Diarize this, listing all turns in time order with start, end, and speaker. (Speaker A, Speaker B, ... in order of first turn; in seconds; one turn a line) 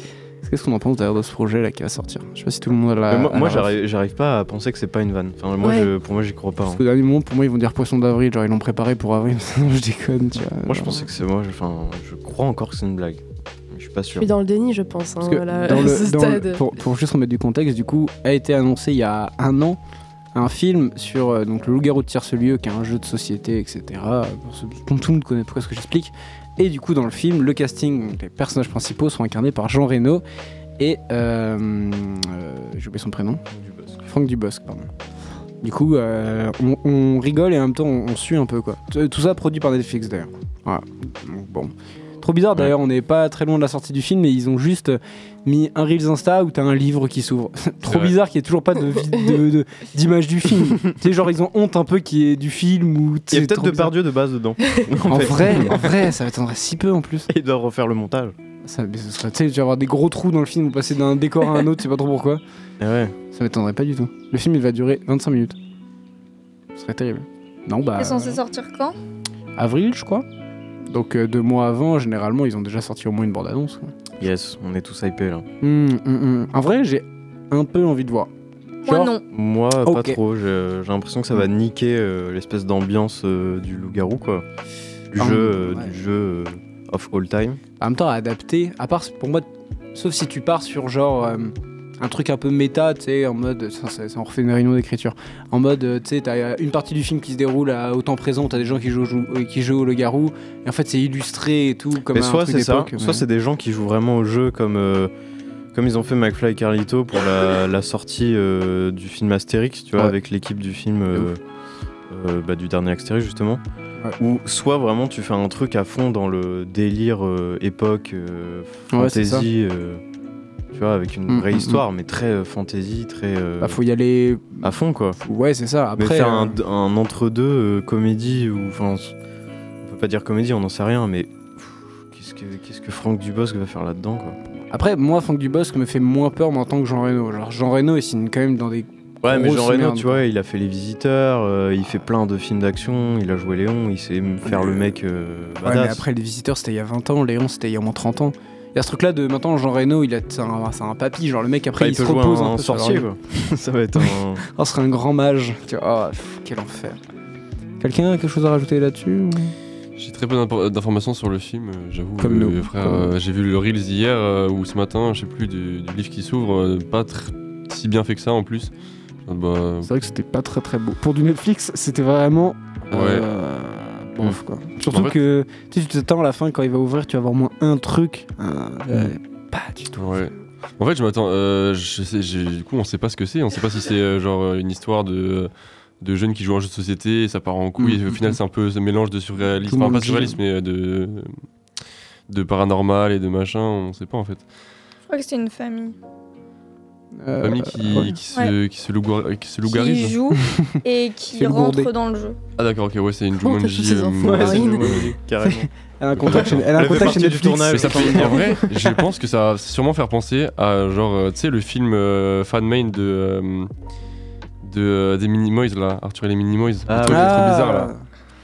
Speaker A: 0.4-3.7
Speaker B: 3.1-6.8
Speaker C: 5.6-5.9
Speaker A: 6.7-11.0
Speaker B: 10.7-14.3
Speaker C: 14.2-16.6
Speaker A: 15.2-19.8
Speaker A: 20.4-30.2
Speaker A: 30.8-33.4
Speaker B: 33.5-34.1
Speaker A: 34.0-34.9
Speaker A: 35.6-53.9
Speaker D: 47.9-48.1
Speaker B: 53.3-55.9
Speaker A: 55.0-57.3
Speaker B: 57.3-58.4
Speaker A: 58.6-62.4
Speaker B: 62.8-63.1
Speaker A: 63.3-65.6
Speaker A: 66.8-68.4
Speaker E: 68.0-69.0
Speaker A: 69.6-70.2
Speaker A: 70.9-74.0
Speaker B: 74.2-75.5
Speaker A: 75.6-78.3
Speaker E: 78.8-79.2
Speaker A: 78.9-79.1
Speaker B: 79.3-84.5
Speaker A: 79.8-80.2
Speaker B: 85.1-87.6
Speaker A: 85.2-85.9
Speaker A: 87.8-103.2
Speaker B: 102.1-105.1
Speaker B: 105.7-111.4
Speaker B: 112.1-113.6
Speaker B: 114.2-120.0
Speaker A: 118.9-119.5
Speaker B: 120.7-123.8
Speaker A: 121.3-121.8
Speaker A: 123.6-124.7
Speaker B: 124.6-125.2
Speaker A: 125.2-126.6
Speaker B: 126.0-129.1
Speaker B: 129.8-134.4
Speaker A: 134.7-140.3
Speaker B: 139.2-146.0
Speaker A: 144.5-144.8
Speaker A: 145.6-153.1
Speaker B: 151.8-154.4
Speaker A: 154.0-157.0
Speaker A: 157.8-159.5
Speaker D: 160.0-168.7
Speaker A: 162.2-163.1
Speaker D: 169.2-169.9
Speaker A: 169.8-180.0
Speaker D: 172.9-173.2
Speaker D: 174.9-175.2
Speaker D: 179.9-191.3
Speaker A: 187.8-188.3
Speaker A: 189.6-190.4
Speaker D: 192.3-194.4
Speaker E: 195.1-196.0
Speaker A: 197.2-198.1
Speaker D: 197.4-200.2
Speaker E: 199.7-202.4
Speaker A: 200.5-200.8
Speaker A: 201.3-201.9
Speaker D: 202.6-205.1
Speaker C: 203.4-205.0
Speaker B: 204.2-205.7
Speaker A: 205.4-208.8
Speaker D: 206.2-206.6
Speaker B: 206.2-208.6
Speaker D: 207.8-213.7
Speaker D: 214.6-217.9
Speaker B: 216.9-217.6
Speaker A: 217.1-218.0